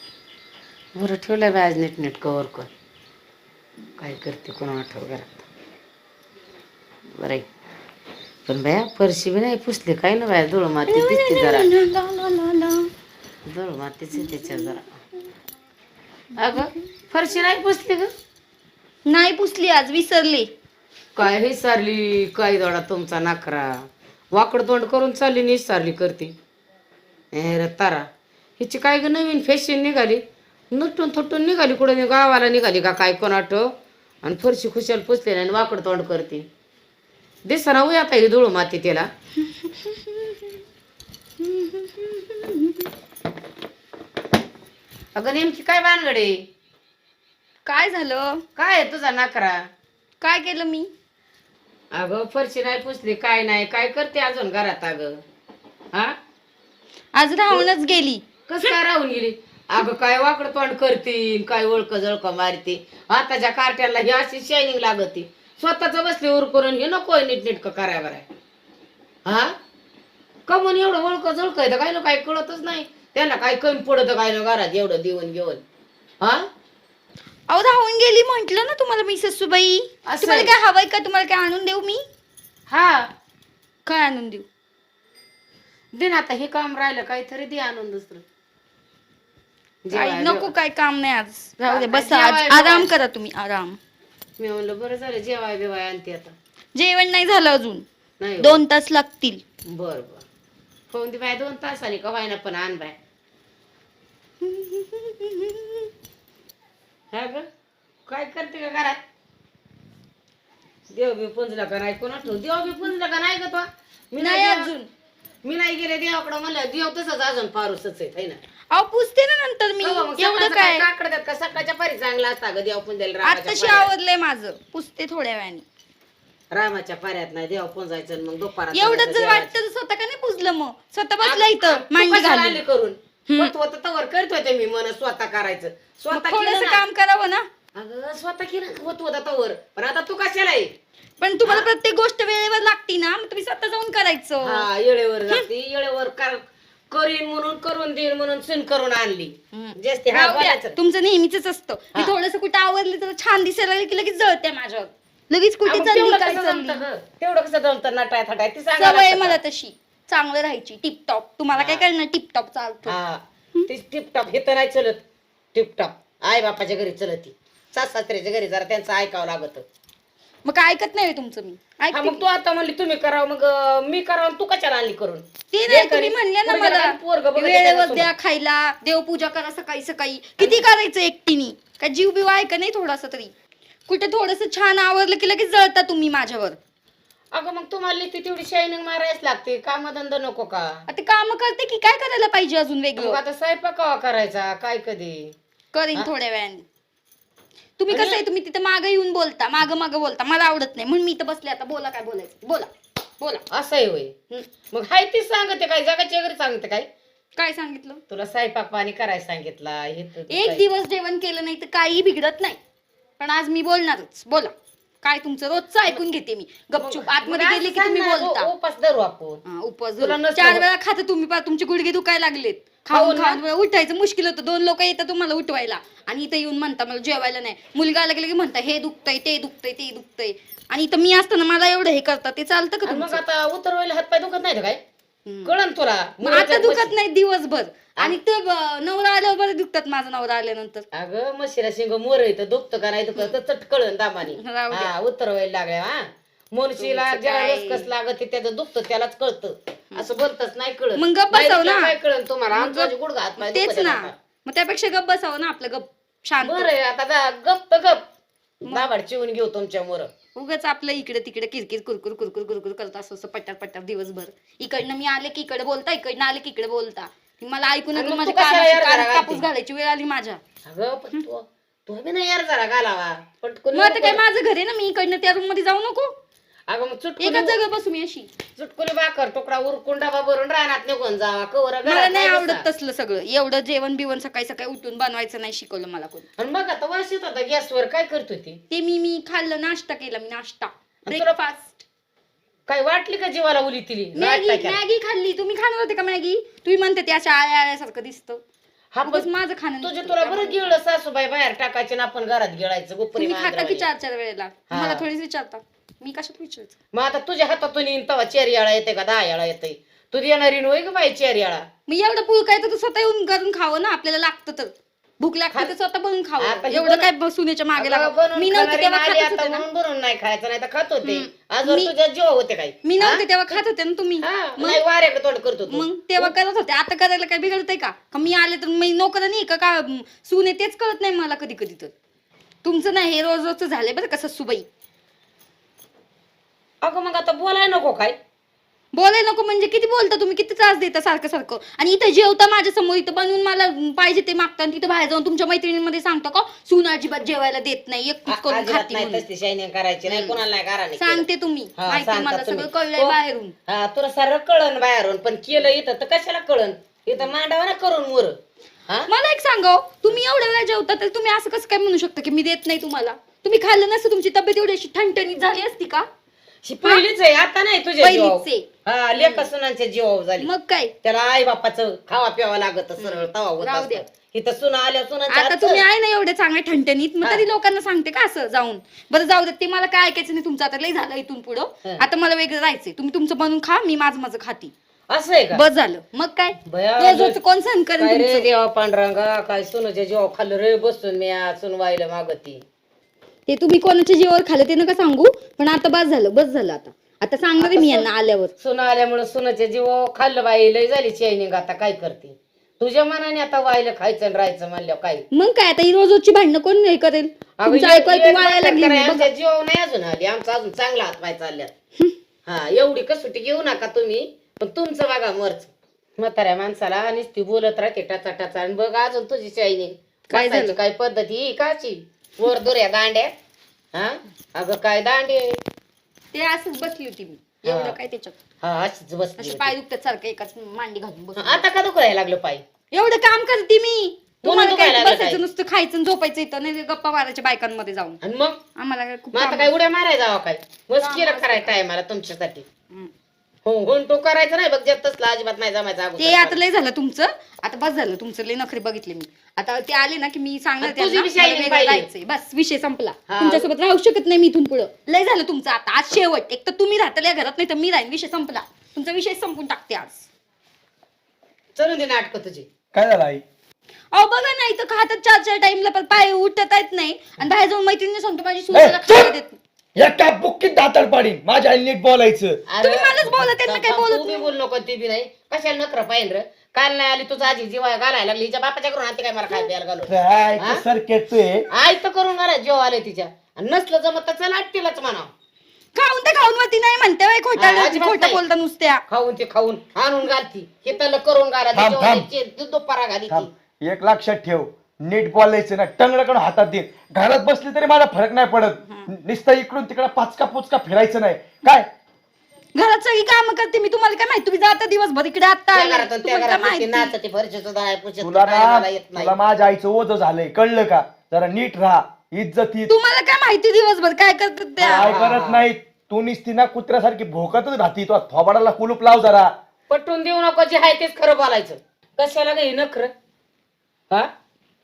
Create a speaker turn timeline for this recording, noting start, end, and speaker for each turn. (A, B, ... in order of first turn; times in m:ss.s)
0:00.9-0:02.7 A
0:04.0-0:05.4 A
0:07.1-0:07.4 A
0:08.4-0:11.7 A
0:10.9-0:12.9 B
0:13.4-0:14.9 A
0:14.1-0:14.8 B
0:16.4-0:18.1 A
0:19.0-0:20.5 B
0:21.2-0:26.3 A
0:27.3-0:28.1 A
0:28.6-0:36.5 A
0:37.4-0:39.1 A
0:39.6-0:40.4 B
0:41.4-0:42.8 B
0:45.1-0:46.4 A
0:47.6-0:48.4 B
0:48.6-0:49.7 A
0:50.2-0:50.9 B
0:51.9-0:55.2 A
0:57.1-0:58.8 B
0:58.5-1:08.3 A
1:09.2-1:09.5 A
1:10.5-1:15.6 A
1:16.2-1:16.5 A
1:17.5-1:22.0 B
1:20.0-1:20.5 A
1:22.7-1:23.1 A
1:23.8-1:24.4 B
1:25.9-1:28.2 A
1:29.8-1:30.5 A
1:29.9-1:33.8 B
1:31.7-1:32.9 A
1:34.4-1:36.3 A
1:36.7-1:37.8 B
1:38.2-1:38.6 A
1:38.4-1:39.4 B
1:39.6-1:40.2 A
1:40.9-1:43.0 A
1:44.4-1:45.8 B
1:47.1-1:47.5 A
1:48.1-1:49.0 A
1:50.9-1:54.7 A
1:54.2-1:54.9 B
1:55.4-1:58.4 A
1:58.7-2:00.9 B
1:59.8-2:03.9 A
2:03.2-2:05.6 B
2:06.5-2:09.5 A
2:08.7-2:12.6 B
2:11.2-2:16.8 A
2:13.3-2:13.5 B
2:16.1-2:17.4 B
2:17.7-2:20.7 A
2:21.2-2:24.7 B
2:21.4-2:21.7 A
2:24.4-2:30.8 A
2:29.5-2:36.8 B
2:35.6-2:39.4 A
2:38.8-2:42.9 B
2:41.5-2:41.8 A
2:42.8-2:45.0 A
2:45.5-2:49.6 A
2:50.4-2:52.2 B
2:51.9-2:58.1 A
2:55.5-3:03.3 B
3:00.4-3:00.7 A
3:03.9-3:06.6 B
3:07.3-3:10.8 A
3:10.9-3:13.2 B
3:13.0-3:15.3 A
3:15.7-3:16.6 B
3:17.8-3:22.7 B
3:17.9-3:18.2 A
3:23.5-3:24.1 A
3:24.7-3:26.9 A
3:27.4-3:28.0 B
3:28.1-3:30.6 A
3:30.3-3:32.6 B
3:33.2-3:38.5 B
3:36.8-3:39.4 A
3:39.4-3:53.2 B
3:40.0-3:40.6 A
3:42.9-3:43.4 A
3:52.8-3:54.8 A
3:55.2-3:55.6 B
3:55.4-3:56.9 A
3:56.2-4:00.8 B
4:00.9-4:14.1 A
4:04.2-4:04.9 B
4:06.8-4:07.9 B
4:11.0-4:11.9 B
4:12.5-4:16.7 B
4:16.4-4:18.0 A
4:18.6-4:20.1 A
4:18.6-4:18.9 B
4:20.3-4:30.4 B
4:27.9-4:29.4 A
4:30.6-4:34.2 A
4:33.7-4:36.1 B
4:36.7-4:37.6 A
4:37.2-4:38.3 B
4:38.6-4:42.6 A
4:41.8-4:46.2 B
4:46.4-4:48.6 A
4:48.7-4:51.8 B
4:51.0-4:51.3 A
4:52.7-4:54.8 A
4:54.1-4:58.4 B
4:58.9-4:59.3 A
4:59.0-5:00.7 B
4:59.8-5:03.9 A
5:03.1-5:06.7 B
5:04.7-5:05.0 A
5:06.9-5:11.7 A
5:11.9-5:19.6 B
5:16.4-5:17.1 A
5:17.8-5:23.6 A
5:21.0-5:21.9 B
5:22.8-5:24.8 B
5:24.2-5:26.3 A
5:25.7-5:31.9 B
5:32.6-5:34.6 B
5:36.8-5:38.2 A
5:38.9-5:49.2 B
5:48.3-5:58.4 A
5:50.0-5:50.4 B
5:51.0-5:53.5 B
5:59.1-6:06.0 B
6:06.6-6:10.5 A
6:08.0-6:09.5 B
6:10.4-6:10.9 B
6:11.0-6:15.8 A
6:13.0-6:14.0 B
6:15.3-6:24.7 B
6:25.1-6:25.6 A
6:25.5-6:28.5 B
6:26.6-6:27.4 A
6:28.0-6:32.6 A
6:33.5-6:38.5 B
6:37.6-6:45.2 A
6:45.3-6:49.3 B
6:47.6-6:51.7 A
6:52.4-7:03.3 A
7:00.3-7:00.8 B
7:03.9-7:05.6 A
7:06.3-7:08.4 B
7:07.6-7:08.0 A
7:08.6-7:09.7 A
7:09.4-7:11.6 B
7:11.4-7:12.6 A
7:12.9-7:18.2 B
7:14.4-7:15.4 A
7:18.2-7:18.6 A
7:18.8-7:19.7 B
7:19.3-7:22.7 A
7:21.0-7:21.8 B
7:23.6-7:26.6 A
7:26.2-7:40.3 B
7:30.8-7:32.1 A
7:33.3-7:33.7 A
7:41.7-7:42.7 A
7:42.9-7:43.4 C
7:44.1-7:49.6 B
7:48.7-7:49.3 C
7:50.0-7:52.6 C
7:52.7-8:00.8 A
7:52.8-7:54.5 B
8:00.1-8:01.6 C
8:01.7-8:05.3 A
8:05.9-8:09.0 B
8:07.5-8:08.4 A
8:09.1-8:13.5 A
8:11.7-8:12.2 C
8:13.3-8:21.9 C
8:22.7-8:27.1 B
8:25.7-8:29.3 A
8:28.2-8:32.9 C
8:32.9-8:35.1 B
8:34.8-8:39.5 C
8:34.8-8:35.6 A
8:39.9-8:43.1 A